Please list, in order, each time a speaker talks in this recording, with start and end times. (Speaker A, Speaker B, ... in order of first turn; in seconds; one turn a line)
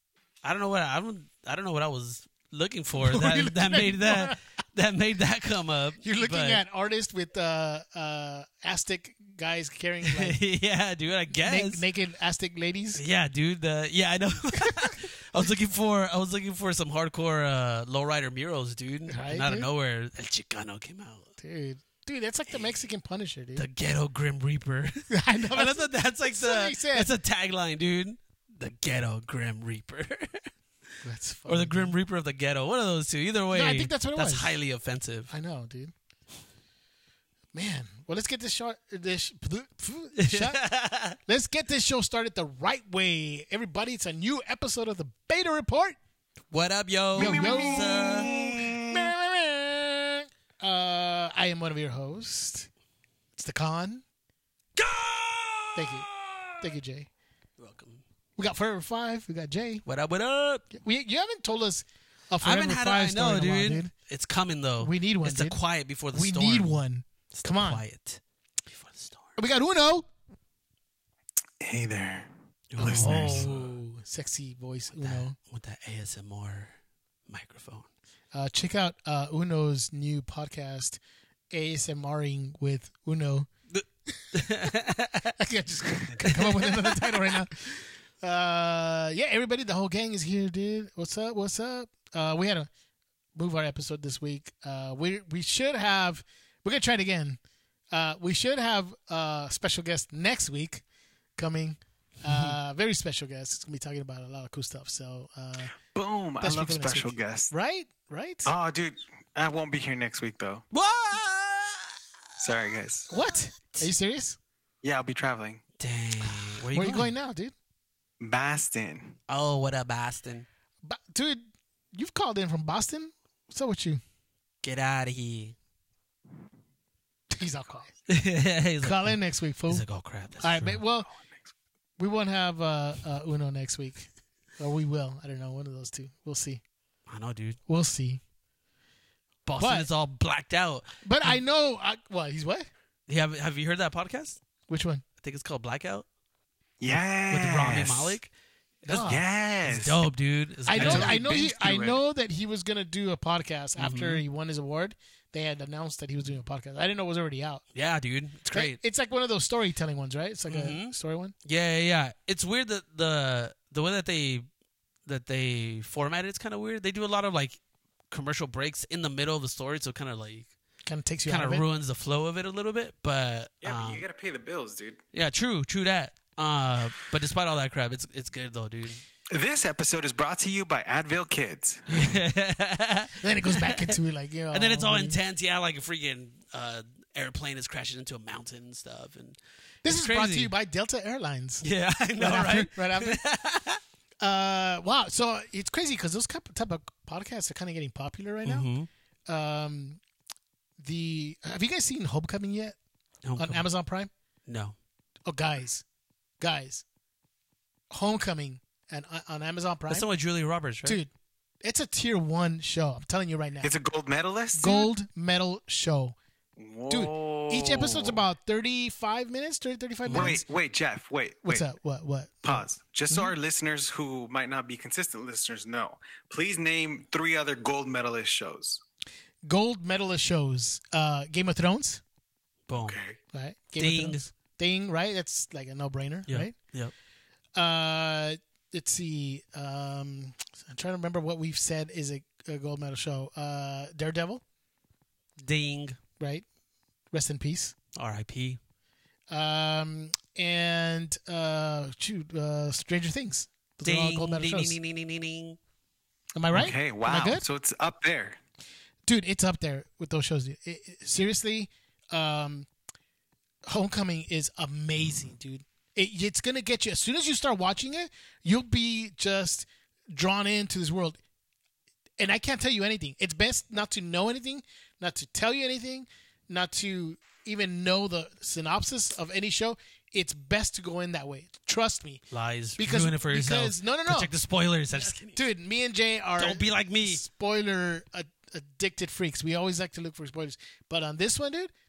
Speaker A: 0.4-6.6
Speaker B: 3.0-4.4
Speaker B: 6.0-10.4
Speaker A: 10.0-11.8
Speaker B: 11.4-13.0
Speaker A: 12.9-21.3
Speaker B: 14.6-14.9
Speaker B: 19.1-19.7
Speaker B: 21.4-23.7
Speaker A: 23.6-30.5
Speaker B: 25.1-27.1
Speaker B: 31.0-31.9
Speaker A: 31.5-35.3
Speaker B: 33.5-34.5
Speaker B: 35.3-35.9
Speaker B: 37.5-40.6
Speaker A: 40.2-41.2
Speaker B: 41.3-46.0
Speaker A: 46.5-48.3
Speaker B: 47.1-52.7
Speaker C: 47.2-49.1
Speaker B: 53.4-54.0
Speaker A: 54.8-56.6
Speaker B: 55.8-56.1
Speaker B: 56.6-57.1
Speaker A: 57.6-58.0
Speaker B: 58.4-59.8
Speaker A: 59.9-60.7
Speaker B: 60.7-63.9
Speaker A: 62.4-66.8
Speaker B: 64.8-65.6
Speaker B: 66.1-67.8
Speaker A: 67.3-69.3
Speaker B: 69.4-70.1
Speaker C: 71.6-73.6
Speaker A: 72.7-73.7
Speaker B: 72.9-75.4
Speaker A: 75.0-76.7
Speaker A: 77.3-77.9
Speaker B: 78.3-81.0
Speaker B: 81.5-83.5
Speaker A: 83.7-85.3
Speaker B: 85.4-92.7
Speaker A: 86.2-87.3
Speaker B: 93.3-97.4
Speaker B: 97.9-100.8
Speaker B: 101.4-105.7
Speaker A: 102.3-102.5
Speaker C: 105.9-107.5
Speaker B: 106.4-108.5
Speaker C: 108.5-110.6
Speaker A: 110.7-112.0
Speaker C: 112.4-113.1
Speaker B: 113.1-114.4
Speaker C: 114.8-115.6
Speaker A: 115.8-117.1
Speaker B: 116.7-117.5
Speaker C: 118.2-119.2
Speaker A: 119.3-120.5
Speaker B: 120.8-124.0
Speaker A: 124.6-125.6
Speaker B: 127.3-127.9
Speaker A: 128.1-130.8
Speaker B: 128.8-129.9
Speaker B: 130.4-131.1
Speaker B: 132.0-136.6
Speaker A: 137.1-137.6
Speaker B: 137.7-138.2
Speaker A: 139.5-141.3
Speaker B: 139.6-139.9
Speaker B: 141.0-142.7
Speaker A: 143.1-144.4
Speaker B: 144.7-145.0
Speaker A: 145.2-146.1
Speaker C: 146.8-148.2
Speaker A: 147.3-148.3
Speaker B: 148.9-149.2
Speaker C: 148.9-150.0
Speaker A: 149.7-151.2
Speaker B: 150.7-157.6
Speaker C: 150.7-152.0
Speaker A: 153.8-154.2
Speaker A: 157.7-158.8
Speaker B: 158.5-161.3
Speaker A: 160.5-164.5
Speaker A: 165.1-170.5
Speaker B: 170.9-171.6
Speaker A: 171.3-174.0
Speaker C: 173.6-175.0
Speaker A: 175.1-179.0
Speaker C: 179.3-181.9
Speaker A: 181.9-184.0
Speaker B: 183.2-185.2
Speaker A: 184.5-190.5
Speaker B: 189.8-191.6
Speaker A: 191.6-193.8
Speaker B: 192.2-193.2
Speaker B: 194.2-198.7
Speaker A: 198.4-198.9
Speaker B: 199.3-200.0
Speaker B: 200.8-202.8
Speaker A: 203.2-203.7
Speaker B: 203.4-204.1
Speaker A: 204.5-204.8
Speaker B: 205.2-205.8
Speaker B: 206.4-206.8
Speaker B: 207.9-210.1
Speaker A: 209.9-211.0
Speaker B: 210.8-211.1
Speaker B: 211.6-213.7
Speaker C: 213.6-214.9
Speaker B: 214.5-216.2
Speaker C: 216.6-218.2
Speaker B: 216.9-220.4
Speaker A: 220.1-220.4
Speaker C: 220.1-221.7
Speaker B: 221.4-223.3
Speaker C: 222.4-228.8
Speaker B: 229.4-232.0
Speaker A: 232.7-233.0
Speaker C: 232.8-233.2
Speaker B: 233.3-236.5
Speaker A: 233.8-234.3
Speaker A: 236.3-236.9
Speaker B: 237.6-244.4
Speaker A: 245.4-246.0
Speaker B: 246.2-246.4
Speaker B: 247.1-247.8
Speaker A: 248.0-248.6
Speaker B: 249.3-254.8
Speaker A: 253.8-255.6
Speaker B: 256.4-257.4
Speaker C: 256.5-258.4
Speaker B: 259.1-262.7
Speaker B: 263.6-271.2
Speaker B: 272.2-282.2
Speaker A: 282.3-285.4
Speaker B: 282.8-284.3
Speaker B: 285.0-291.7
Speaker A: 286.4-287.2